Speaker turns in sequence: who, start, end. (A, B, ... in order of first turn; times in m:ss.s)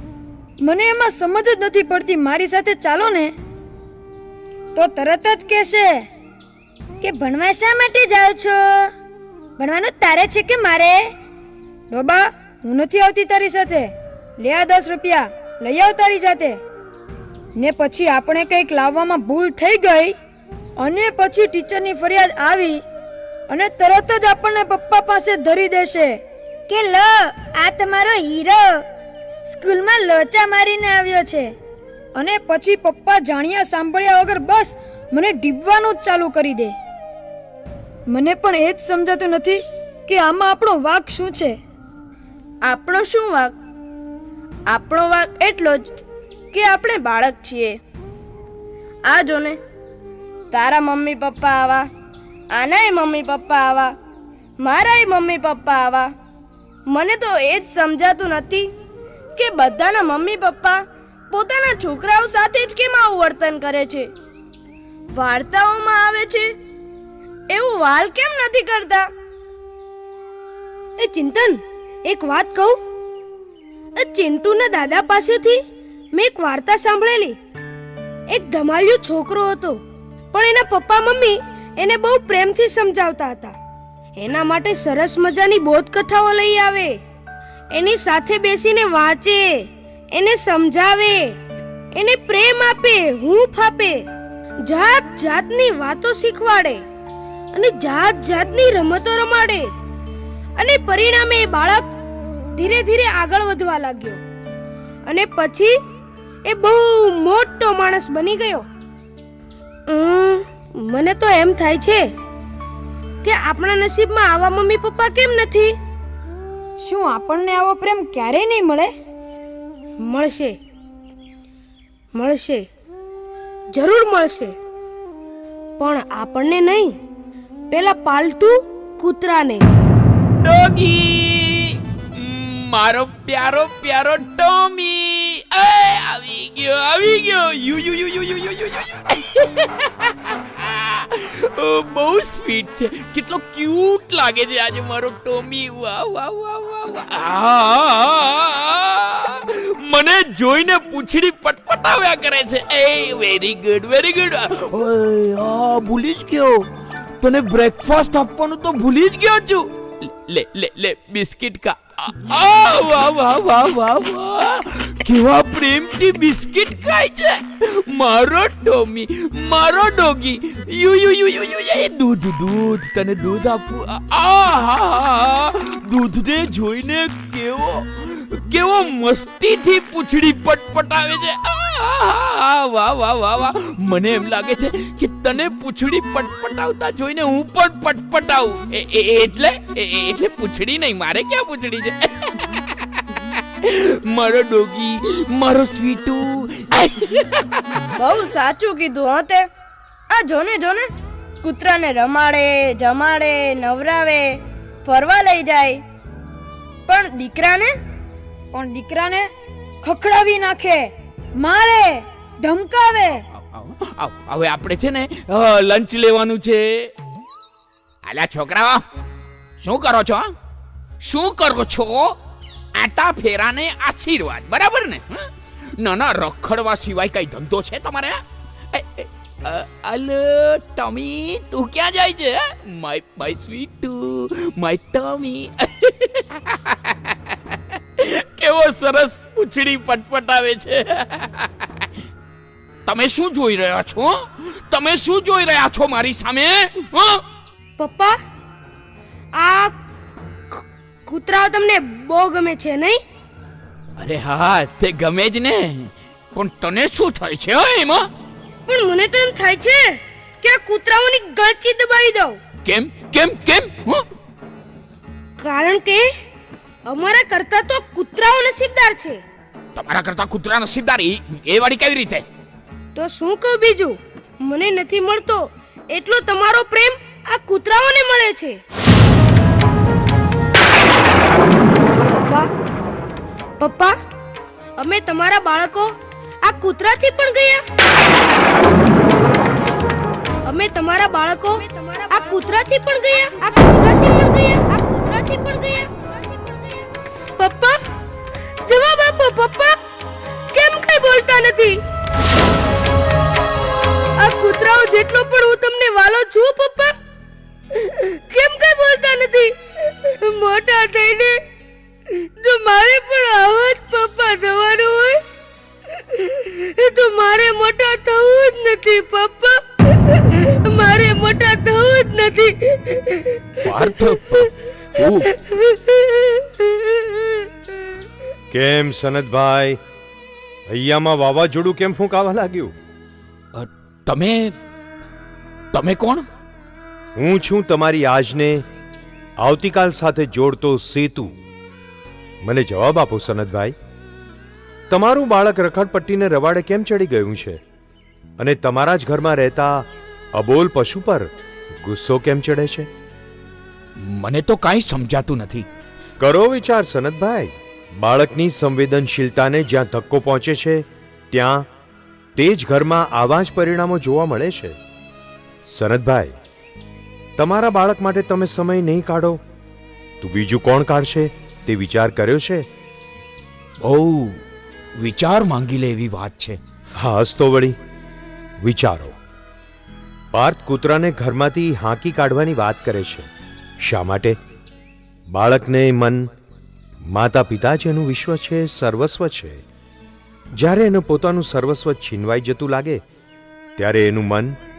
0:00.6-0:03.3 A
0:04.7-0:06.0 A
0:07.0-0:08.9 A
0:09.6-0:11.0 A
0:11.9-0:16.6 A
0:17.6-0:20.1 A
0:20.8-0:22.8 A
0:23.5-0:26.2 A
0:26.7-0:28.8 A
0:29.5-0:31.5 A
0:32.1-0:36.7 A
0:38.1-0:41.5 A
0:42.6-0:43.5 B
0:44.7-0:45.9 B
0:46.5-0:47.8 B
0:49.0-0:49.6 B
0:50.5-0:51.9 B
0:52.5-0:53.9 B
0:54.6-0:56.1 B
0:56.9-0:58.7 B
0:59.4-1:04.1 B
1:05.1-1:06.5 B
1:07.5-1:09.1 B
1:11.0-1:12.8 C
1:14.0-1:15.6 C
1:16.1-1:17.4 C
1:18.3-1:19.8 C
1:20.3-1:23.5 C
1:24.2-1:27.0 C
1:27.7-1:29.5 C
1:30.1-1:31.2 C
1:31.9-1:34.0 C
1:34.6-1:36.8 C
1:37.5-1:39.6 C
1:40.6-1:41.8 C
1:42.6-1:44.2 C
1:45.0-1:45.7 C
1:46.4-1:48.6 C
1:49.9-1:52.0 C
1:53.2-1:55.8 C
1:56.8-1:58.9 A
2:00.0-2:00.6 C
2:02.1-2:02.6 C
2:03.7-2:04.5 C
2:05.8-2:06.9 C
2:07.7-2:09.6 C
2:10.4-2:36.6 D
2:37.2-3:12.7 D
3:13.3-3:17.5 D
3:18.0-3:19.4 B
3:20.1-3:20.9 B
3:21.4-3:25.8 B
3:26.9-3:27.7 B
3:28.5-3:29.3 A
3:29.8-3:33.2 A
3:33.4-3:36.9 D
3:38.0-3:38.8 D
3:39.6-3:40.3 D
3:41.0-3:42.2 D
3:42.7-3:48.2 D
3:48.7-4:01.6 D
4:02.8-4:07.2 D
4:07.8-4:08.2 C
4:09.4-4:09.7 C
4:10.5-4:13.0 C
4:14.0-4:18.1 D
4:18.7-4:22.4 C
4:22.6-4:24.0 D
4:25.4-4:26.0 C
4:26.9-4:29.2 C
4:29.7-4:32.2 D
4:32.9-4:38.6 C
4:43.6-4:43.9 C
4:44.8-4:47.6 C
4:50.4-4:57.8 C
4:58.6-4:59.8 C
5:00.5-5:01.8 C
5:04.2-5:06.9 C
5:07.7-5:11.4 C
5:12.1-5:15.2 C
5:15.9-5:23.7 C
5:23.6-5:25.3 D
5:25.3-5:27.4 C
5:28.5-5:29.8 E
5:30.7-5:32.7 E
5:33.5-5:34.5 D
5:35.7-5:36.2 D
5:37.2-5:38.6 E
5:39.4-5:41.3 E
5:42.4-5:43.7 E
5:44.9-5:47.6 E
5:48.4-5:51.3 E
5:51.8-5:52.9 E
5:54.0-5:55.6 D
5:56.2-6:01.6 E
6:02.3-6:04.8 E
6:05.7-6:06.4 E
6:07.4-6:09.4 E
6:10.2-6:12.6 E
6:13.8-6:14.4 D
6:15.0-6:16.6 D
6:17.0-6:17.8 E
6:18.6-6:19.1 E
6:20.3-6:23.3 E
6:23.8-6:24.4 E
6:25.3-6:26.3 E
6:27.1-6:29.6 E
6:30.6-6:33.0 E
6:33.8-6:34.6 E